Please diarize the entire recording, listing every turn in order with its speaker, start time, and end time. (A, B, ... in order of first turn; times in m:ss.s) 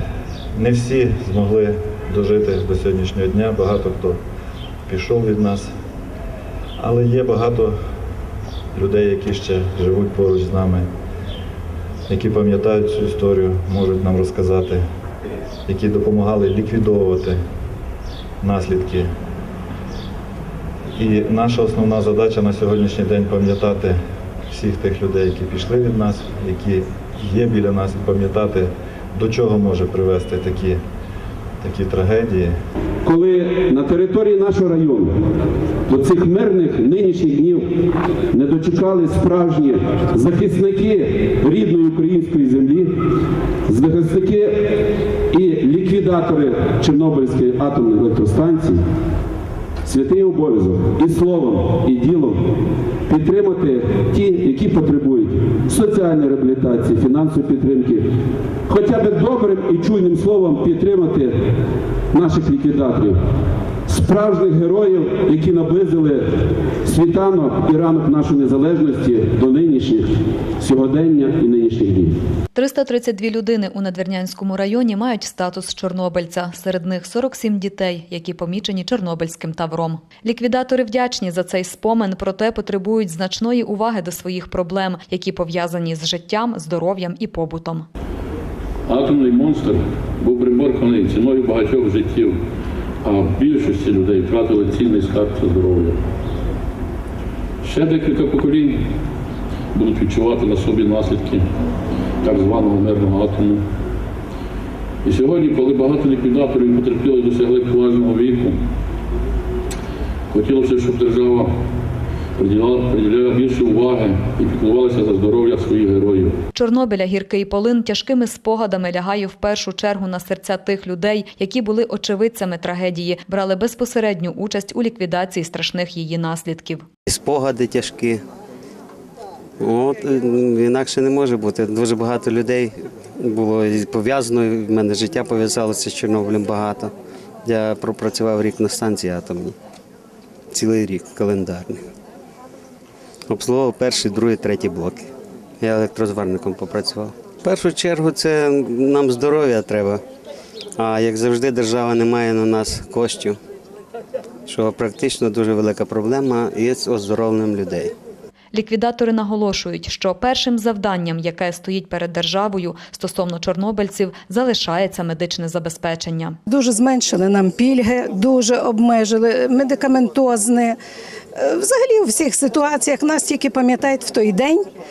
0:00.6-0:04.2 A
0:04.9-0:05.7 A
0:06.8-0:07.8 A
0:08.8-0:10.8 A
0:12.1-0:14.8 A
0:15.7-0:17.4 A
0:18.4-0:19.1 A
0:21.0-0:24.0 A
0:24.5-0:30.8 A
0:31.6-0:32.5 A
0:33.0-0:35.1 B
0:35.9-0:37.6 B
0:38.3-0:42.9 B
0:43.7-0:44.5 B
0:45.3-0:48.8 B
0:49.8-0:52.4 B
0:53.1-0:58.0 B
0:58.7-1:01.4 B
1:02.1-1:03.2 B
1:03.9-1:06.3 B
1:06.8-1:12.2 B
1:12.6-1:27.9 C
1:28.9-1:32.4 D
1:33.0-1:36.0 D
1:37.6-1:38.8 D
1:39.7-1:41.5 D
1:42.2-1:43.6 D
1:45.0-1:48.6 D
1:50.3-1:51.5 D
1:52.4-1:56.4 D
1:56.6-2:06.8 C
2:07.1-2:08.2 E
2:09.6-2:16.9 E
2:17.4-2:19.6 E
2:20.5-2:21.8 E
2:23.3-2:25.1 E
2:25.6-2:30.0 E
2:30.8-2:33.4 E
2:34.5-2:37.9 E
2:38.5-2:46.4 C
2:46.5-2:50.8 F
2:51.4-2:54.6 F